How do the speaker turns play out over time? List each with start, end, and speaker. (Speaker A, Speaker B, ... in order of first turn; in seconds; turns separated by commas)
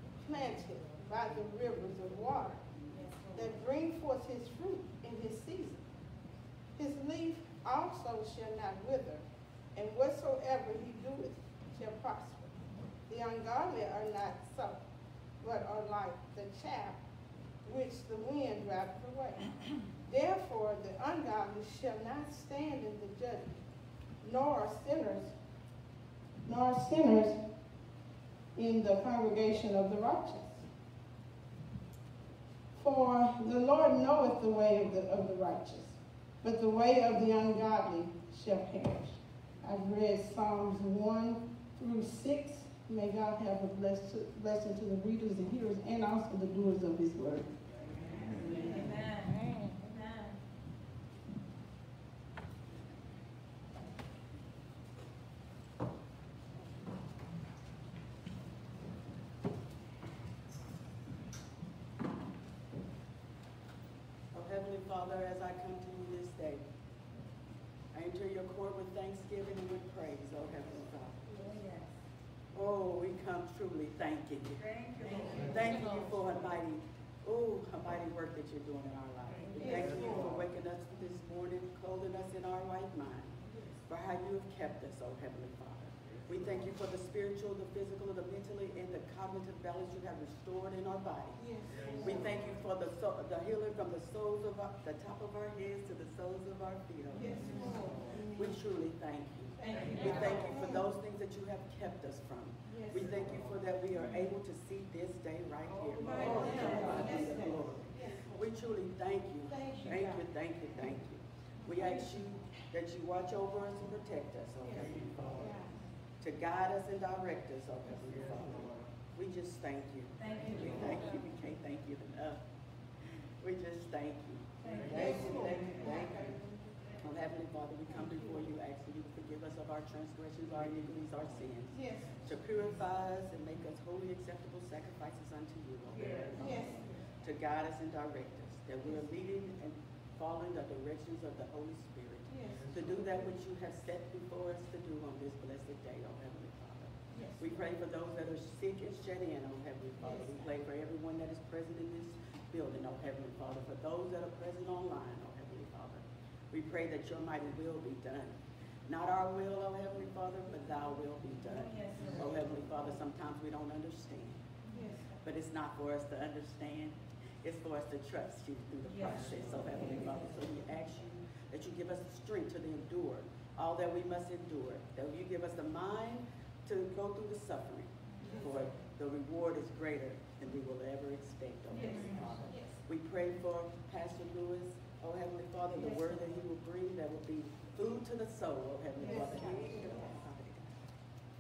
Speaker A: 0.2-2.6, Speaker B: 2.9-3.5, Speaker A: 3.3-5.8, Speaker A: 6.8-9.2, Speaker A: 9.8-14.8, Speaker A: 15.4-17.0, Speaker A: 17.6-19.4, Speaker A: 20.1-23.5, Speaker A: 24.2-25.3, Speaker A: 26.5-27.4, Speaker A: 28.6-30.6, Speaker A: 32.8-47.5, Speaker B: 48.3-50.4, Speaker C: 64.3-66.6, Speaker C: 67.9-71.4, Speaker B: 71.3-71.9, Speaker C: 72.5-83.3, Speaker B: 74.6-75.5, Speaker A: 79.6-80.4, Speaker C: 83.9-91.4, Speaker A: 91.4-92.2, Speaker C: 92.0-115.5, Speaker A: 97.2-98.6, Speaker A: 99.7-100.9, Speaker A: 102.7-103.0, Speaker A: 105.9-107.5, Speaker A: 109.5-110.2, Speaker A: 115.4-115.7, Speaker C: 116.2-122.4, Speaker B: 120.2-120.8, Speaker C: 123.4-126.4, Speaker A: 124.8-126.4, Speaker C: 127.0-164.5, Speaker A: 131.7-132.1, Speaker A: 136.4-136.8, Speaker A: 142.3-142.6, Speaker A: 147.2-147.5, Speaker B: 161.5-162.3, Speaker A: 164.7-165.1, Speaker C: 165.2-190.8, Speaker B: 168.9-169.3, Speaker A: 181.8-182.2, Speaker A: 185.8-186.1, Speaker A: 189.0-190.1